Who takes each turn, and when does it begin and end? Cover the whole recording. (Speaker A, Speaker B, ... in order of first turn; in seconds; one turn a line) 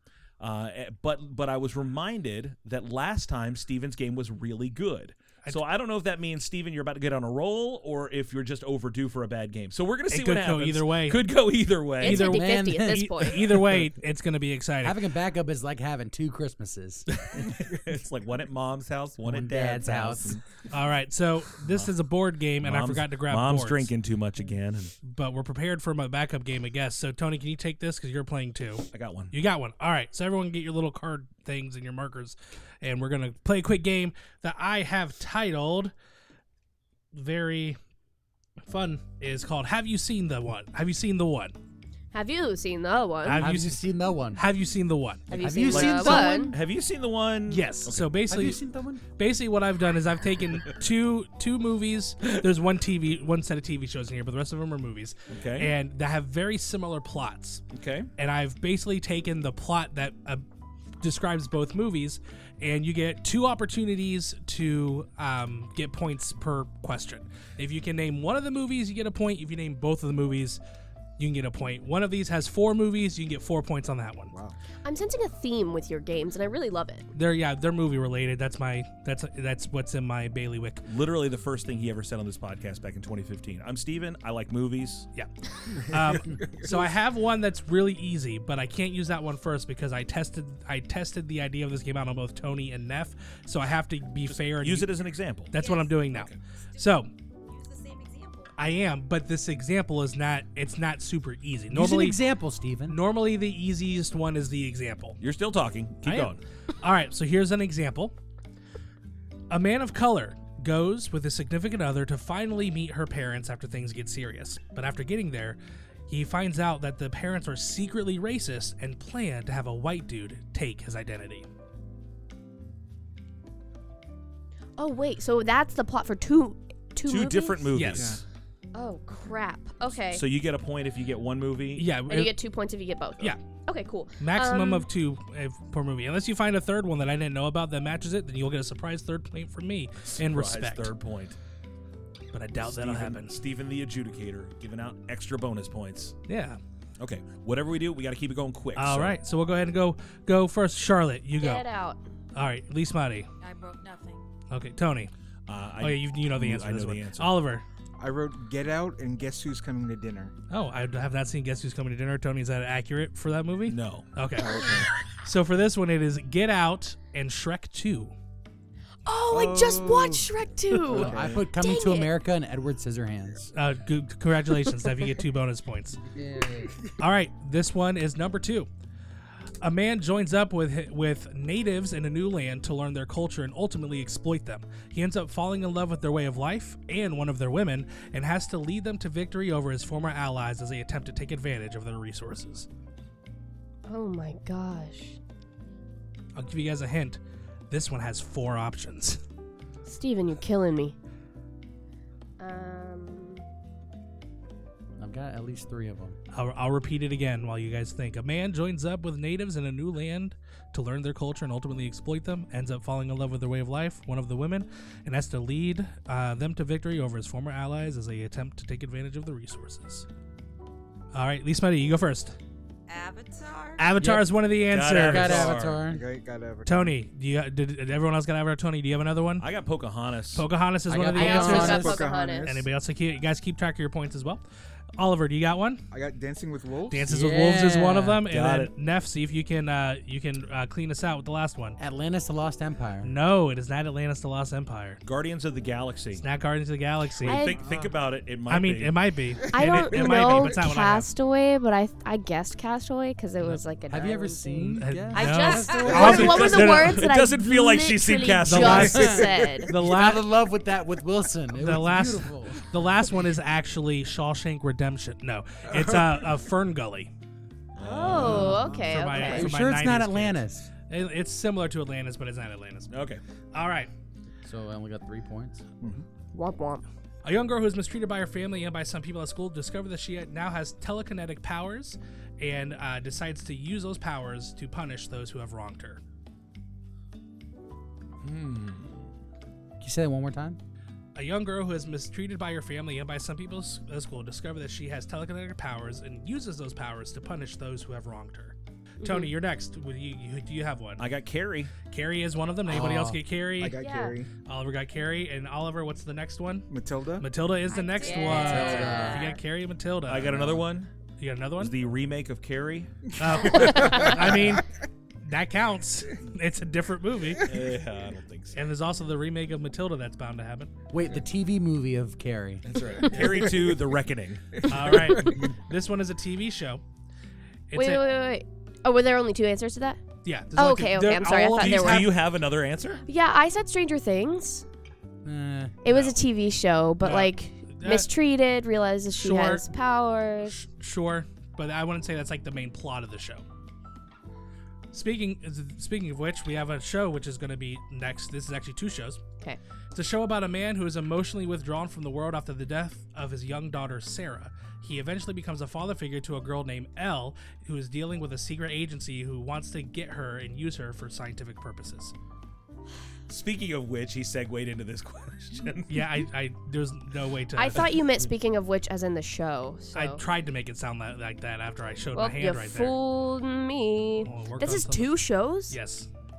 Speaker A: 0.4-12.3
Speaker B: 10.1-11.2
Speaker C: 12.0-13.4
Speaker B: 12.0-15.0
Speaker D: 12.1-13.3
Speaker D: 14.8-17.4
Speaker A: 17.2-20.5
Speaker D: 19.2-20.4
Speaker B: 20.7-23.9
Speaker A: 21.7-21.9
Speaker A: 22.6-24.9
Speaker B: 25.0-35.9
Speaker A: 28.9-29.3
Speaker B: 37.1-37.8
Speaker B: 38.7-41.5
Speaker C: 42.1-43.5
Speaker B: 43.2-45.4
Speaker D: 43.4-44.5
Speaker C: 45.3-46.5
Speaker D: 45.3-46.6
Speaker A: 45.7-48.1
Speaker B: 47.5-48.6
Speaker D: 48.3-49.0
Speaker B: 49.2-57.6
Speaker A: 55.3-55.7
Speaker A: 57.7-58.1
Speaker B: 58.2-60.4
Speaker B: 61.0-70.6
Speaker B: 71.2-74.3
Speaker E: 74.3-74.6
Speaker C: 74.8-77.1
Speaker B: 77.1-80.8
Speaker A: 80.8-85.1
Speaker B: 85.2-94.9
Speaker E: 86.3-86.8
Speaker A: 94.3-95.5
Speaker B: 95.5-97.1
Speaker F: 95.5-96.1
Speaker F: 96.7-98.5
Speaker B: 98.6-102.2
Speaker D: 101.7-103.0
Speaker B: 102.9-105.2
Speaker A: 105.2-106.4
Speaker B: 106.0-108.1
Speaker B: 109.5-121.5
Speaker C: 124.8-127.7
Speaker A: 127.1-128.2
Speaker B: 127.7-128.1
Speaker E: 128.0-128.2
Speaker C: 128.7-130.2
Speaker A: 130.1-131.9
Speaker B: 131.8-132.3
Speaker C: 132.1-134.9
Speaker B: 134.2-140.9
Speaker A: 140.1-141.4
Speaker B: 142.3-143.4
Speaker A: 142.6-146.2
Speaker B: 146.3-146.6
Speaker A: 147.0-149.2
Speaker B: 148.8-151.7
Speaker C: 151.4-152.0
Speaker B: 152.3-153.3
Speaker F: 153.4-154.2
Speaker B: 154.5-155.1
Speaker A: 155.5-157.3
Speaker B: 155.8-157.6
Speaker E: 158.0-160.3
Speaker B: 160.5-168.1
Speaker A: 163.7-164.1
Speaker E: 164.4-164.9
Speaker C: 169.1-172.1
Speaker E: 169.3-170.3
Speaker E: 170.9-171.5
Speaker D: 170.9-173.5
Speaker B: 173.5-176.0
Speaker D: 176.1-176.7
Speaker B: 177.0-178.7
Speaker B: 179.6-192.7
Speaker C: 193.9-195.2
Speaker B: 196.3-199.2
Speaker C: 199.9-201.0
Speaker C: 202.4-203.4
Speaker D: 205.0-206.2
Speaker B: 206.3-220.1
Speaker B: 221.1-222.4
Speaker F: 222.9-223.9
Speaker B: 223.8-225.5
Speaker D: 224.0-224.3
Speaker A: 224.7-225.9
Speaker D: 224.9-226.0
Speaker E: 225.8-227.0
Speaker B: 226.7-229.5
Speaker A: 229.4-230.4
Speaker B: 230.3-234.4
Speaker D: 230.9-232.0
Speaker C: 231.2-232.5
Speaker E: 231.5-232.7
Speaker B: 235.0-235.8
Speaker E: 235.9-237.1
Speaker B: 236.9-241.8
Speaker D: 237.0-238.2
Speaker A: 238.3-238.7
Speaker D: 241.8-243.2
Speaker B: 243.0-245.0
Speaker A: 245.0-246.2
Speaker B: 246.2-247.4
Speaker A: 247.2-248.9
Speaker C: 247.2-247.6
Speaker E: 247.6-247.9
Speaker B: 248.5-251.1
Speaker C: 249.5-259.7
Speaker D: 253.9-256.4
Speaker B: 254.8-257.1
Speaker E: 255.8-256.2
Speaker A: 255.8-259.2
Speaker B: 258.4-260.3
Speaker D: 258.6-262.6
Speaker E: 259.1-259.6
Speaker B: 261.6-267.1
Speaker E: 265.7-266.2
Speaker A: 267.8-268.7
Speaker C: 267.8-269.5
Speaker E: 268.1-269.0
Speaker D: 268.2-270.7
Speaker B: 268.2-272.9
Speaker A: 272.9-273.2
Speaker B: 273.5-273.9
Speaker D: 274.4-275.6
Speaker C: 276.3-276.8
Speaker B: 277.2-286.0
Speaker A: 288.2-288.9
Speaker D: 289.8-290.6
Speaker B: 291.1-301.1
Speaker C: 299.0-299.3
Speaker A: 301.0-301.7
Speaker B: 301.9-303.8
Speaker D: 302.7-303.2
Speaker E: 303.6-304.3
Speaker C: 303.8-304.2
Speaker B: 304.4-306.7
Speaker E: 306.7-307.3
Speaker B: 307.2-310.5
Speaker C: 307.7-309.4
Speaker F: 307.7-309.3
Speaker D: 308.3-309.3
Speaker A: 310.1-310.9
Speaker D: 310.2-310.7
Speaker B: 311.2-311.7
Speaker A: 311.6-313.7
Speaker B: 313.2-314.7
Speaker C: 313.4-314.2
Speaker E: 313.7-314.4
Speaker B: 315.2-317.5
Speaker A: 317.4-318.6
Speaker B: 318.5-320.7
Speaker D: 320.9-322.6
Speaker A: 322.7-325.0
Speaker B: 323.1-323.4
Speaker B: 324.6-326.8
Speaker B: 327.7-328.0
Speaker C: 327.7-330.0
Speaker B: 330.2-332.2
Speaker C: 330.6-332.1
Speaker A: 331.6-333.0
Speaker C: 333.1-334.6
Speaker D: 335.2-335.8
Speaker C: 335.8-340.6
Speaker B: 335.9-336.2
Speaker B: 337.0-338.1
Speaker B: 339.2-339.7
Speaker B: 340.5-343.4
Speaker B: 344.9-349.2
Speaker B: 349.9-362.1
Speaker A: 363.3-366.0
Speaker B: 365.9-367.9
Speaker C: 367.6-370.2
Speaker B: 369.9-373.0
Speaker C: 372.1-375.8
Speaker B: 374.2-375.1
Speaker B: 375.7-376.1